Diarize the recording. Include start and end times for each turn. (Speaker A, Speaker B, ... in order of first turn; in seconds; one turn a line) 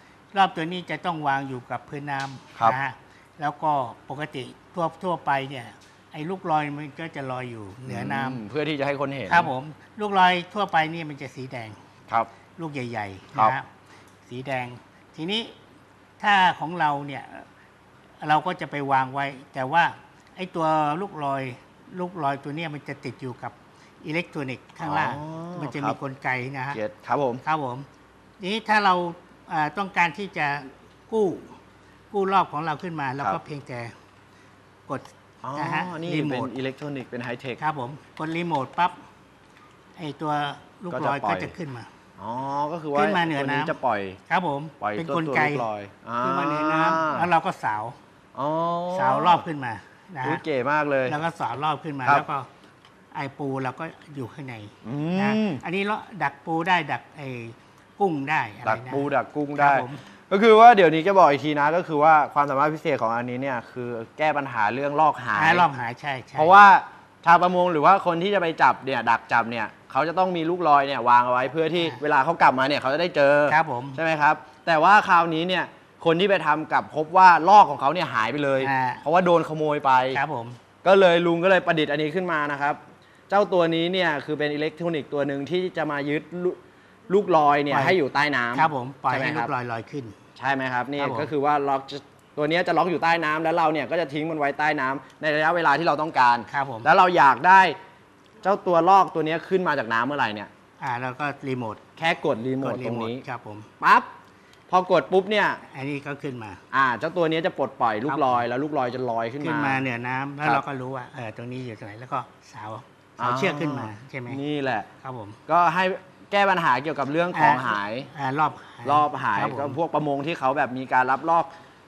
Speaker A: 0.3-8.4
Speaker B: 7.9-9.5
Speaker A: 9.3-11.8
Speaker A: 12.6-13.7
Speaker A: 14.3-15.6
Speaker A: 16.2-17.5
Speaker A: 18.2-26.8
Speaker B: 24.8-26.0
Speaker B: 26.7-27.4
Speaker A: 27.4-27.9
Speaker A: 28.4-31.5
Speaker A: 32.1-33.9
Speaker A: 34.9-36.5
Speaker B: 35.4-37.6
Speaker A: 37.6-39.0
Speaker A: 40.0-41.9
Speaker B: 40.9-41.5
Speaker B: 42.2-44.2
Speaker A: 42.9-43.8
Speaker A: 44.3-45.7
Speaker B: 44.8-47.3
Speaker A: 46.2-48.0
Speaker B: 48.4-49.4
Speaker A: 48.9-50.4
Speaker B: 50.2-51.2
Speaker A: 51.0-52.5
Speaker A: 53.1-60.0
Speaker B: 54.8-55.6
Speaker B: 58.6-65.7
Speaker A: 65.3-66.5
Speaker B: 66.4-80.2
Speaker A: 73.5-74.0
Speaker A: 78.6-79.0
Speaker A: 80.1-80.6
Speaker B: 80.8-89.5
Speaker A: 87.7-88.0
Speaker A: 88.5-90.2
Speaker B: 90.4-97.8
Speaker A: 91.0-91.3
Speaker A: 96.5-96.9
Speaker B: 98.4-100.5
Speaker A: 100.8-101.8
Speaker B: 102.0-103.2
Speaker A: 102.6-103.7
Speaker B: 103.8-104.1
Speaker B: 104.7-105.6
Speaker A: 105.7-106.6
Speaker B: 106.7-109.8
Speaker A: 108.1-108.4
Speaker A: 109.4-114.4
Speaker B: 113.2-114.9
Speaker A: 115.0-115.4
Speaker B: 115.5-118.1
Speaker A: 117.3-119.8
Speaker B: 118.8-121.5